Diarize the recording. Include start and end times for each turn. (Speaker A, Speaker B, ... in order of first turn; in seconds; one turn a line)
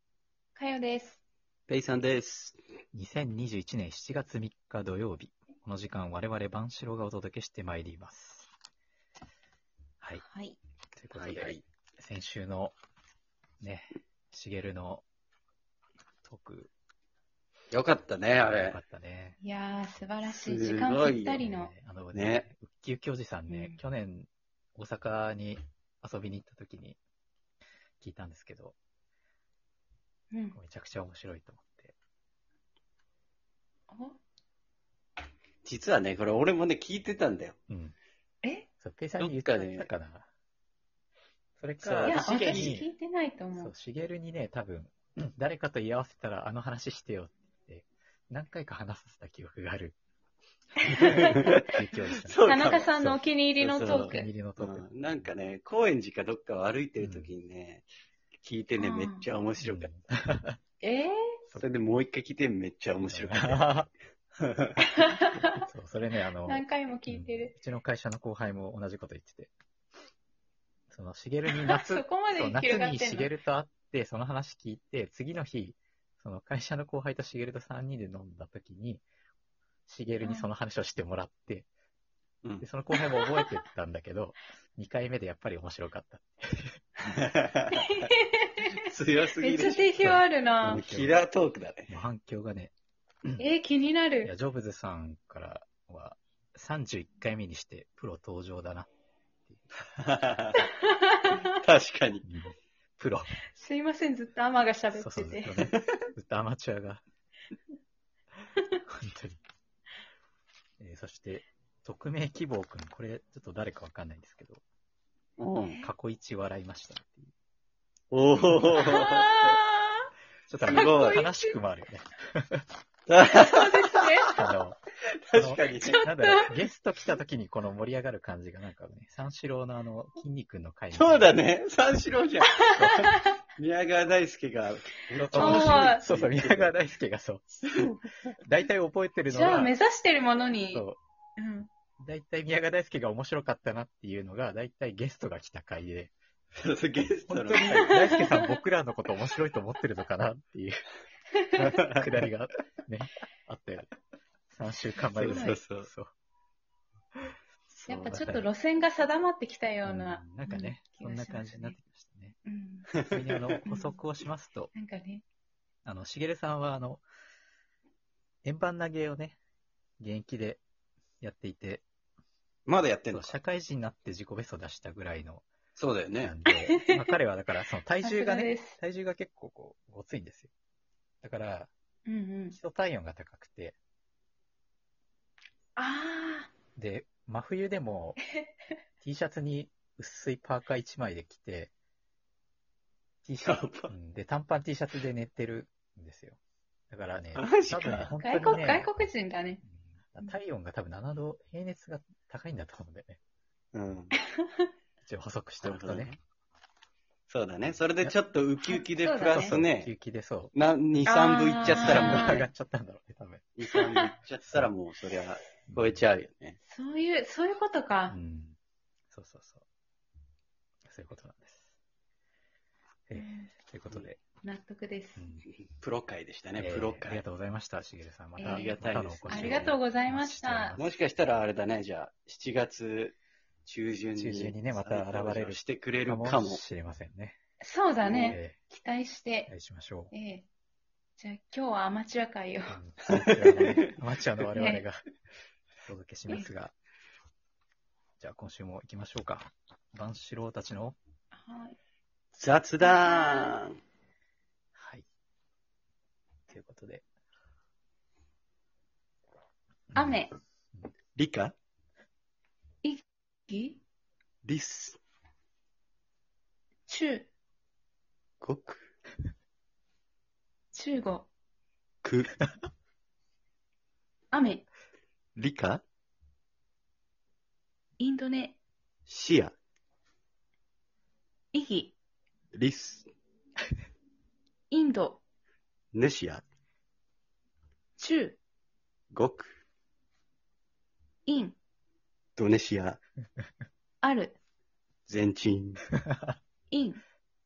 Speaker A: 0.6-1.2
Speaker B: 1.7-2.6
Speaker C: 2.9-8.5
Speaker A: 10.2-10.6
Speaker C: 11.0-12.8
Speaker B: 11.1-11.6
Speaker C: 13.6-15.0
Speaker C: 16.2-16.7
Speaker B: 17.7-18.8
Speaker C: 18.4-19.4
Speaker A: 19.4-21.7
Speaker B: 20.2-21.4
Speaker C: 21.4-27.0
Speaker B: 22.1-22.5
Speaker A: 23.5-23.8
Speaker C: 28.0-28.8
Speaker A: 30.3-30.6
Speaker C: 30.5-31.9
Speaker A: 33.9-34.2
Speaker B: 35.6-37.6
Speaker C: 37.7-38.0
Speaker A: 38.4-38.7
Speaker C: 38.8-40.3
Speaker B: 39.2-39.9
Speaker C: 41.6-42.9
Speaker B: 41.8-42.8
Speaker A: 42.0-43.7
Speaker C: 43.6-50.0
Speaker C: 50.9-53.2
Speaker A: 50.9-51.7
Speaker B: 52.2-52.9
Speaker A: 52.4-54.3
Speaker B: 53.6-57.9
Speaker C: 53.8-54.9
Speaker C: 57.0-57.3
Speaker B: 58.4-59.9
Speaker A: 58.8-59.2
Speaker C: 59.6-60.6
Speaker A: 60.8-61.1
Speaker B: 61.6-63.7
Speaker C: 63.0-63.9
Speaker B: 64.4-64.8
Speaker A: 64.9-65.6
Speaker C: 65.5-69.5
Speaker A: 66.5-67.5
Speaker C: 70.9-79.0
Speaker A: 71.5-73.3
Speaker C: 79.8-81.7
Speaker A: 80.2-80.5
Speaker C: 82.6-86.8
Speaker A: 83.2-83.5
Speaker B: 87.0-87.9
Speaker A: 87.7-90.8
Speaker B: 88.7-90.0
Speaker C: 90.0-91.2
Speaker B: 90.7-91.9
Speaker C: 91.9-92.7
Speaker A: 93.4-94.3
Speaker C: 94.2-98.9
Speaker C: 99.5-99.8
Speaker B: 99.9-100.6
Speaker A: 100.6-101.5
Speaker B: 101.6-102.2
Speaker C: 102.2-103.3
Speaker A: 103.5-105.6
Speaker C: 104.9-107.0
Speaker B: 105.6-105.9
Speaker C: 108.9-109.4
Speaker C: 110.8-114.6
Speaker B: 115.4-115.8
Speaker C: 115.8-117.3
Speaker B: 118.1-119.5
Speaker A: 118.7-120.1
Speaker C: 120.5-122.6
Speaker B: 120.7-121.2
Speaker A: 120.7-121.6
Speaker B: 123.1-124.3
Speaker A: 123.3-124.3
Speaker C: 124.3-124.8
Speaker B: 125.1-126.0
Speaker C: 125.3-131.4
Speaker A: 126.0-126.5
Speaker B: 130.9-132.7
Speaker A: 132.6-133.3
Speaker C: 132.7-133.1
Speaker B: 133.6-136.7
Speaker C: 135.2-137.9
Speaker A: 135.3-136.0
Speaker C: 138.4-139.7
Speaker A: 139.3-140.8
Speaker C: 140.7-141.0
Speaker A: 141.4-141.7
Speaker C: 142.0-146.1
Speaker B: 146.6-147.9
Speaker C: 147.3-150.8
Speaker A: 147.6-148.4
Speaker A: 151.4-151.7
Speaker C: 151.6-153.9
Speaker B: 151.6-152.0
Speaker C: 154.5-156.1
Speaker B: 155.2-155.9
Speaker A: 155.2-155.6
Speaker B: 157.7-158.3
Speaker A: 157.9-161.8
Speaker C: 158.1-158.5
Speaker C: 159.8-162.4
Speaker A: 162.4-162.9
Speaker B: 162.9-163.6
Speaker C: 163.0-164.7
Speaker A: 163.7-164.0
Speaker A: 164.7-165.2
Speaker C: 165.8-167.0
Speaker C: 168.4-169.4
Speaker C: 170.0-170.6
Speaker C: 171.2-171.8
Speaker B: 172.7-173.4
Speaker C: 173.1-175.4
Speaker B: 175.8-176.3
Speaker C: 176.2-180.5
Speaker A: 176.5-177.2
Speaker A: 178.0-178.8
Speaker C: 181.2-181.7
Speaker A: 182.1-182.6
Speaker C: 182.5-183.8
Speaker A: 185.8-186.5
Speaker C: 186.8-188.2
Speaker C: 189.0-191.7
Speaker C: 193.2-196.4
Speaker B: 193.4-193.9
Speaker C: 196.9-198.9
Speaker B: 197.3-198.1
Speaker A: 197.9-199.6
Speaker C: 199.7-203.2
Speaker B: 203.7-204.1
Speaker A: 204.3-204.7
Speaker C: 205.0-206.1
Speaker B: 205.6-206.2
Speaker B: 207.3-209.9
Speaker A: 208.6-209.6
Speaker C: 209.3-211.1
Speaker B: 210.5-212.4
Speaker A: 211.0-212.5
Speaker C: 211.6-213.4
Speaker B: 213.6-216.6
Speaker A: 213.7-214.1
Speaker A: 216.7-218.2
Speaker C: 218.1-218.6
Speaker C: 219.1-219.6
Speaker C: 220.8-221.7
Speaker C: 223.1-224.2
Speaker A: 223.1-223.5
Speaker A: 224.4-225.2
Speaker C: 225.2-225.4
Speaker B: 225.7-227.2
Speaker C: 226.6-230.9
Speaker A: 228.4-230.8
Speaker B: 228.4-229.8
Speaker B: 230.8-236.6
Speaker C: 234.1-237.4
Speaker A: 237.6-239.5
Speaker B: 238.0-238.4
Speaker C: 238.3-238.6
Speaker C: 239.5-240.1
Speaker A: 240.1-240.4
Speaker A: 241.2-242.8
Speaker C: 242.7-245.0
Speaker B: 243.1-243.7
Speaker A: 244.5-244.8
Speaker C: 245.8-246.7
Speaker C: 248.2-251.0
Speaker A: 251.3-251.8
Speaker B: 252.3-253.8
Speaker A: 252.8-253.6
Speaker C: 254.8-255.0
Speaker C: 256.5-257.0
Speaker C: 259.9-260.2
Speaker A: 259.9-260.3
Speaker B: 261.1-261.5
Speaker A: 262.8-263.8
Speaker B: 264.4-265.0
Speaker A: 266.9-267.3
Speaker B: 268.4-268.9
Speaker A: 270.7-271.3
Speaker B: 272.0-272.4
Speaker A: 274.3-274.6
Speaker B: 275.4-275.8
Speaker A: 278.0-278.6
Speaker B: 279.1-279.5
Speaker A: 281.5-281.9
Speaker B: 282.5-283.1
Speaker A: 284.7-285.2
Speaker B: 285.9-286.4
Speaker A: 288.0-288.4
Speaker B: 289.1-289.5
Speaker A: 291.3-291.6
Speaker B: 292.4-293.0
Speaker A: 294.0-294.3
Speaker B: 295.1-295.8
Speaker A: 296.7-297.0